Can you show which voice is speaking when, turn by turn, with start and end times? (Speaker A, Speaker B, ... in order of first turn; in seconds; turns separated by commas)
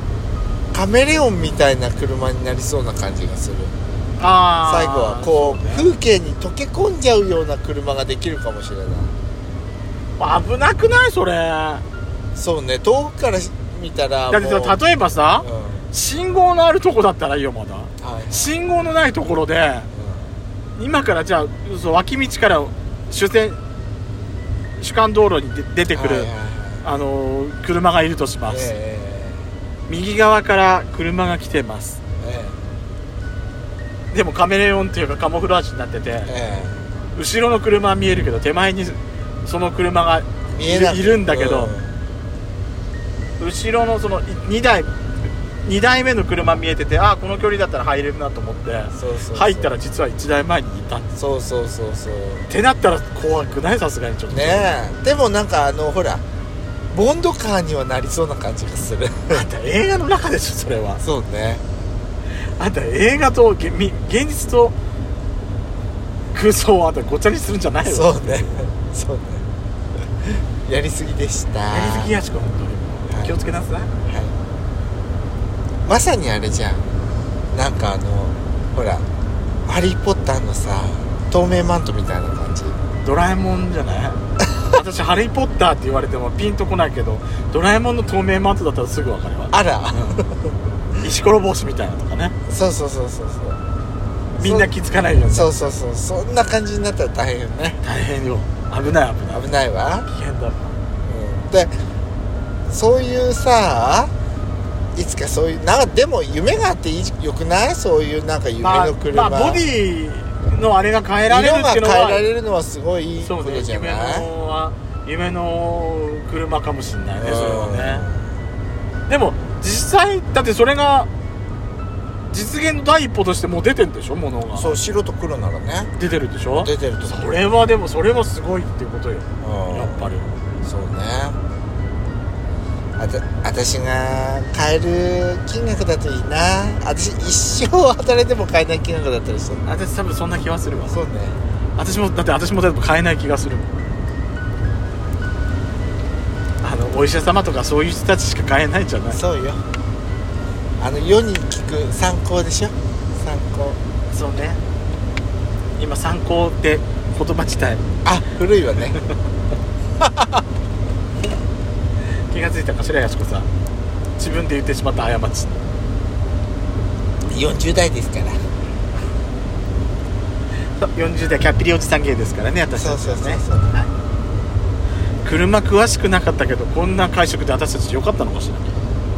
Speaker A: 0.7-3.7, Speaker B: 4.2-5.9, Speaker A: 4.6-9.2, Speaker B: 10.2-11.8, Speaker A: 12.3-14.8, Speaker B: 14.3-19.9, Speaker A: 15.4-15.9, Speaker A: 18.0-18.6, Speaker A: 19.9-20.3, Speaker B: 20.8-23.6, Speaker B: 24.8-26.3, Speaker A: 25.9-26.9, Speaker B: 26.8-28.7, Speaker A: 28.5-29.4, Speaker B: 29.9-32.0, Speaker A: 32.2-32.6, Speaker B: 34.1-36.3, Speaker A: 36.2-36.8, Speaker B: 37.1-41.7, Speaker A: 40.5-42.0, Speaker B: 43.4-44.9, Speaker B: 45.6-51.1, Speaker A: 48.9-49.7, Speaker A: 51.1-52.5, Speaker B: 52.5-54.7, Speaker A: 54.3-56.2, Speaker A: 56.9-59.5, Speaker B: 59.3-61.0, Speaker A: 61.0-61.6, Speaker B: 62.6-64.7, Speaker B: 66.3-68.6, Speaker A: 67.8-69.4, Speaker A: 70.2-72.1, Speaker B: 71.7-73.9, Speaker A: 73.1-73.4, Speaker A: 74.1-74.3, Speaker A: 75.8-76.8, Speaker A: 77.5-79.0, Speaker A: 79.7-82.8, Speaker B: 83.0-90.2, Speaker A: 89.5-90.5, Speaker B: 91.0-92.3, Speaker A: 92.5-93.6, Speaker B: 94.4-95.7, Speaker A: 94.4-94.7, Speaker A: 95.2-97.8, Speaker B: 97.8-99.4, Speaker A: 99.3-100.1, Speaker B: 100.0-100.7, Speaker A: 101.1-101.7, Speaker A: 102.7-104.1, Speaker A: 104.9-109.6, Speaker B: 108.6-112.3, Speaker A: 111.3-114.3, Speaker B: 113.2-118.0, Speaker A: 117.2-118.2, Speaker B: 119.1-121.1, Speaker B: 122.3-124.8, Speaker A: 124.5-125.9, Speaker B: 126.0-130.3, Speaker A: 126.5-127.4, Speaker A: 129.4-131.4, Speaker A: 133.0-139.6, Speaker B: 139.6-141.0, Speaker A: 140.9-141.4, Speaker B: 141.8-143.7, Speaker B: 146.6-149.2, Speaker A: 149.1-149.6, Speaker A: 150.8-153.8, Speaker B: 154.1-154.6, Speaker B: 155.8-157.8, Speaker A: 158.0-159.0, Speaker A: 160.0-160.4, Speaker B: 162.3-163.5, Speaker B: 164.2-165.6, Speaker A: 167.3-168.4, Speaker B: 170.8-173.9, Speaker A: 172.7-173.7, Speaker B: 175.2-178.7